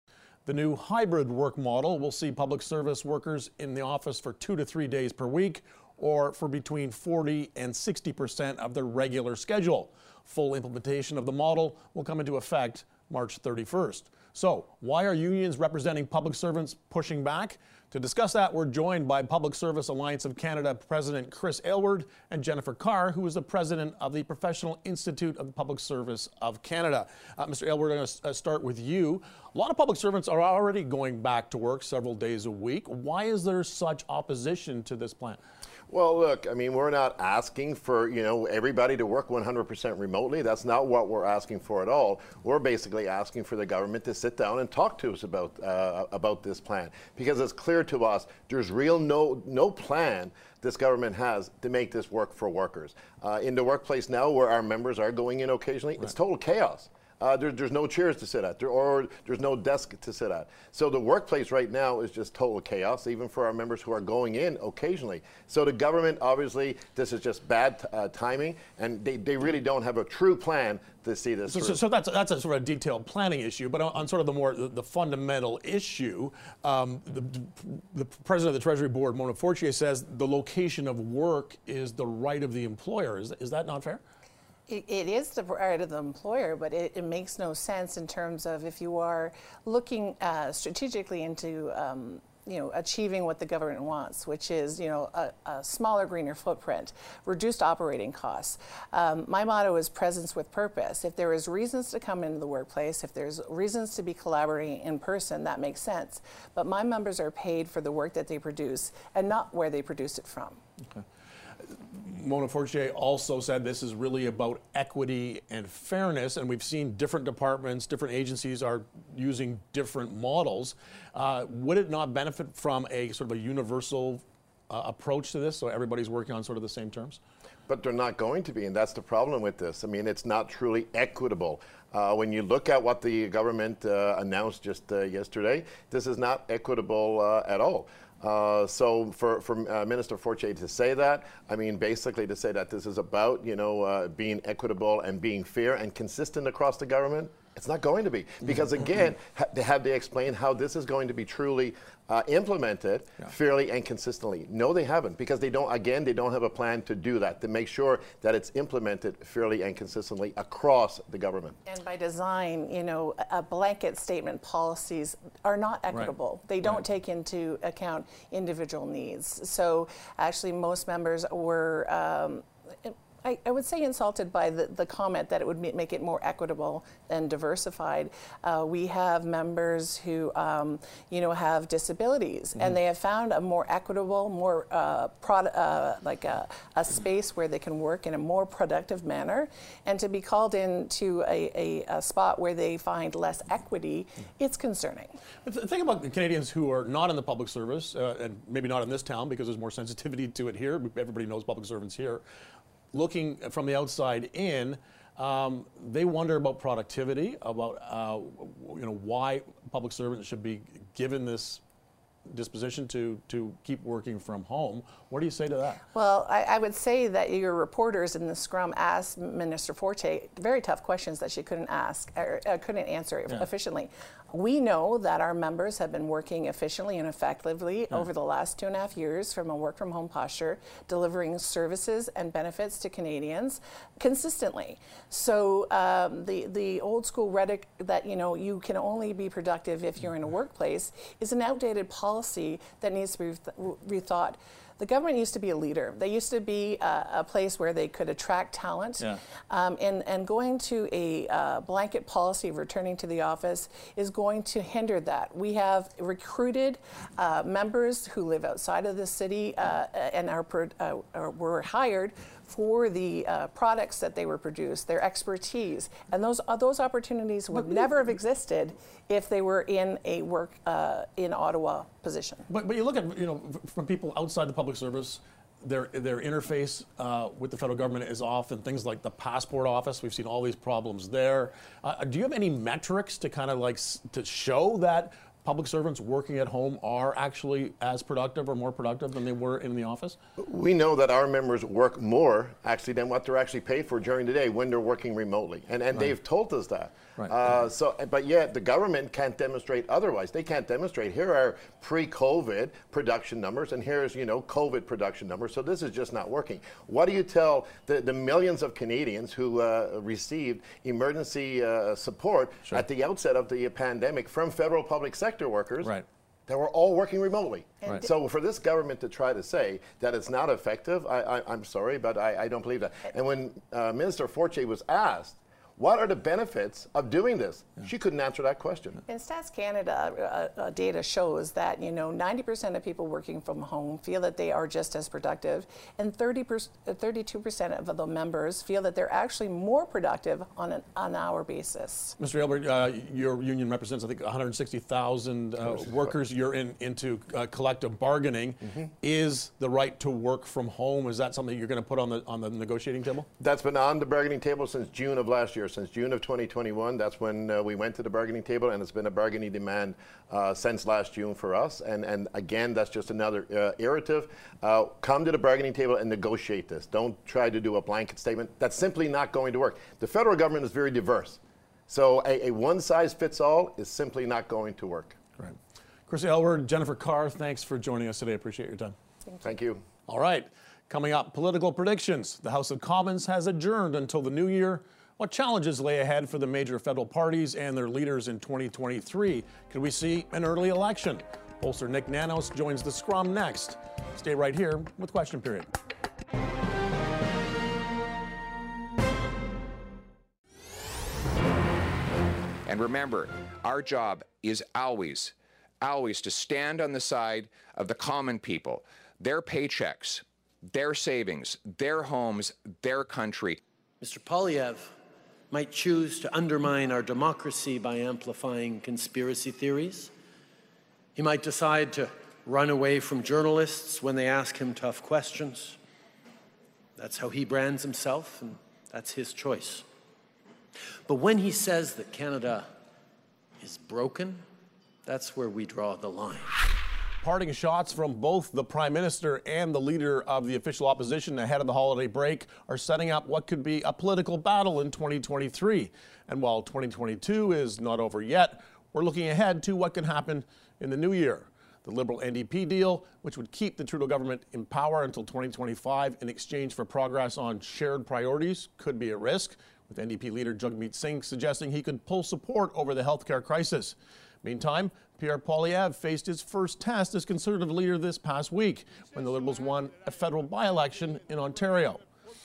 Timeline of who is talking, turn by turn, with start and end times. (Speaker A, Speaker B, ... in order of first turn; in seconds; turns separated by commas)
Speaker A: 0.5-35.4, Speaker B: 35.9-71.8, Speaker A: 71.5-84.0, Speaker C: 84.7-110.6, Speaker A: 111.6-127.2, Speaker B: 127.7-161.6, Speaker C: 161.7-195.1, Speaker A: 195.4-202.2, Speaker A: 202.9-211.6, Speaker A: 212.3-215.8, Speaker C: 215.9-272.5, Speaker A: 272.5-290.2, Speaker B: 290.4-329.0, Speaker C: 329.1-342.2, Speaker A: 342.2-353.3, Speaker B: 353.4-375.2, Speaker A: 376.1-378.9, Speaker B: 379.4-379.8, Speaker A: 380.1-395.7, Speaker D: 402.6-413.6, Speaker E: 414.0-414.9, Speaker E: 415.5-420.1, Speaker E: 421.1-425.8, Speaker E: 427.0-429.9, Speaker E: 431.1-432.7, Speaker E: 433.6-434.4, Speaker E: 435.0-436.6, Speaker A: 437.2-472.0